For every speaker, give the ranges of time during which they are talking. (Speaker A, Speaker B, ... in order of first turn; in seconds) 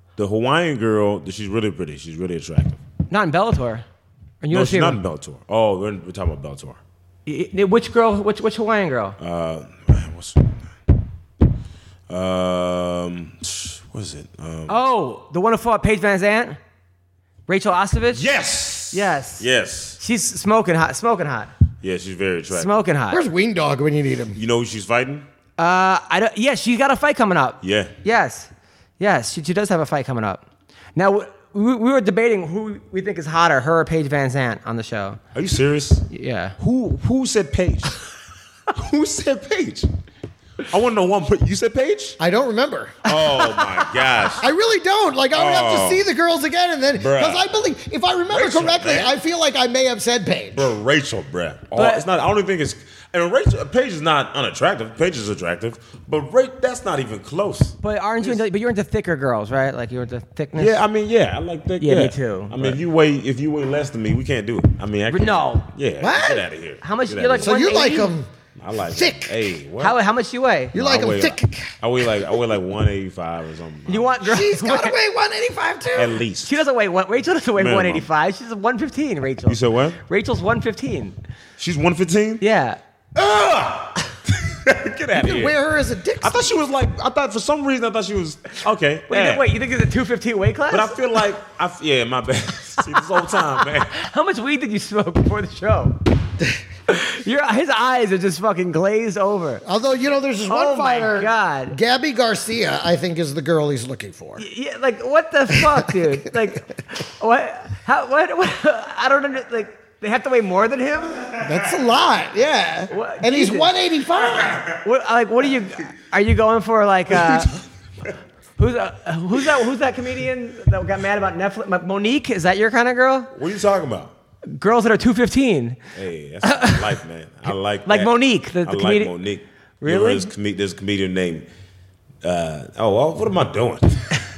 Speaker A: 0.2-2.8, 4.5-6.8, 9.2-10.7, 12.1-14.8, 18.1-20.0, 21.8-22.7, 24.4-25.2, 27.6-27.9, 35.3-36.1, 36.6-38.1, 38.7-39.9, 40.7-42.2, 43.0-44.5, 45.3-46.0, 47.0-47.4, 48.3-49.1, 50.5-58.4, 60.5-67.5, 68.6-70.0, 70.7-74.1, 75.9-76.6, 77.5-78.0, 79.5-80.0, 81.6-82.4, 83.1-85.6, 86.2-89.5, 90.7-94.0, 117.1-117.6, 123.3-124.1, 125.9-131.4, 132.2-134.2
Speaker B: 3.1-3.8, 4.4-5.0, 7.2-9.2, 14.7-16.6, 17.5-18.2, 18.9-19.5, 20.0-21.5, 22.5-23.2, 25.6-30.4, 30.9-35.2, 36.1-36.5, 43.1-43.8, 51.8-52.0, 57.8-60.8, 61.8-62.8, 65.1-65.7, 66.8-68.1, 69.8-70.8, 73.9-74.9, 76.4-81.2, 82.4-82.8, 89.1-91.0, 93.9-96.0, 96.9-99.6, 100.5-101.8, 104.4-111.3, 112.9-113.7, 114.8-117.5, 118.6-123.3, 124.5-125.8, 126.4-126.9, 127.8-129.1, 129.8-130.3
Speaker C: 23.1-24.4, 42.2-43.0, 44.4-50.7, 66.0-66.4, 67.4-68.3, 68.9-69.5, 70.7-71.7, 74.2-76.2, 85.1-86.5, 99.6-104.4, 105.6-105.9, 111.4-114.6